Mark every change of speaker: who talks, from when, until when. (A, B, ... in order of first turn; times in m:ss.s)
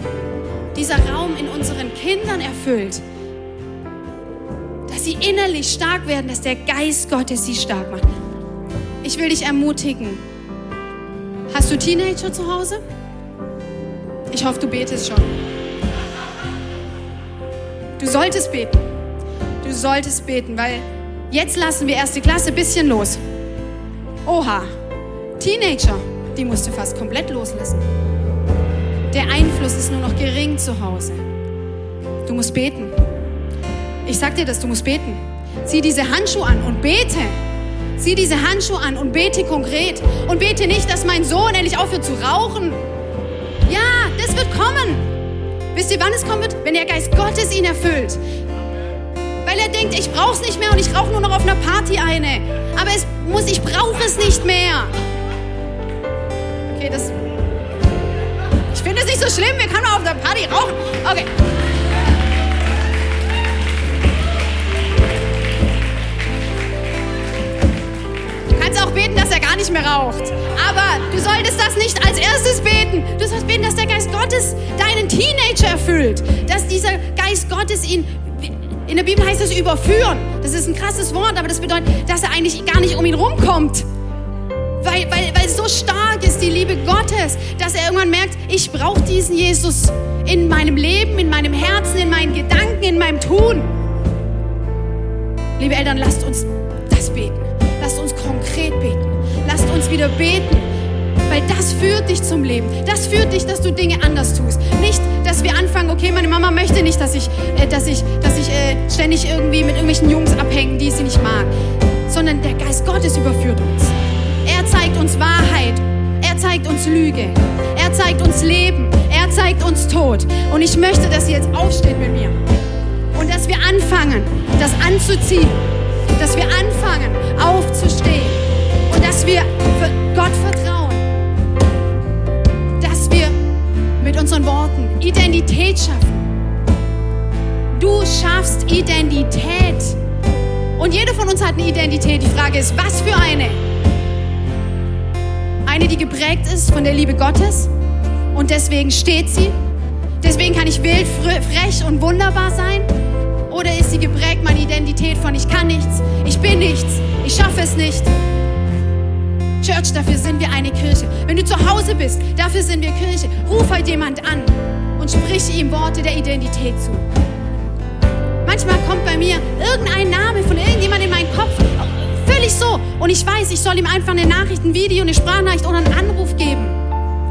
0:00.7-0:03.0 A
0:04.9-0:08.1 A
0:09.0-0:10.2 A
0:11.5-0:12.8 A
0:14.3-0:15.3 A
0:18.0-0:18.8 A
0:19.6-0:23.2 A
0:24.2-0:24.7 A
0:25.4-0:27.8 A
0:29.1-0:31.2 A
0:32.2-0:33.0 A
0:34.0-0:37.4 A
0:38.0-0:42.8 A
0:43.7-0:45.1 A
0:45.7-0:48.2 A
0:49.4-0:54.9 A
0:56.7-0:57.1 A
0:58.7-1:01.3 A
1:08.5-1:23.8 A
1:24.8-1:33.7 A
1:35.6-1:40.7 A
1:41.3-1:51.5 A
1:52.1-2:02.4 A
2:03.1-2:05.6 A
2:06.2-2:11.0 A
2:12.8-2:13.3 A
2:14.0-2:16.3 A
2:17.7-2:20.0 A
2:20.8-2:23.6 A
2:25.6-2:27.7 A
2:28.3-2:29.6 A
2:30.2-2:32.9 A
2:33.5-2:38.1 A
2:39.6-2:47.0 A
2:48.4-2:56.8 A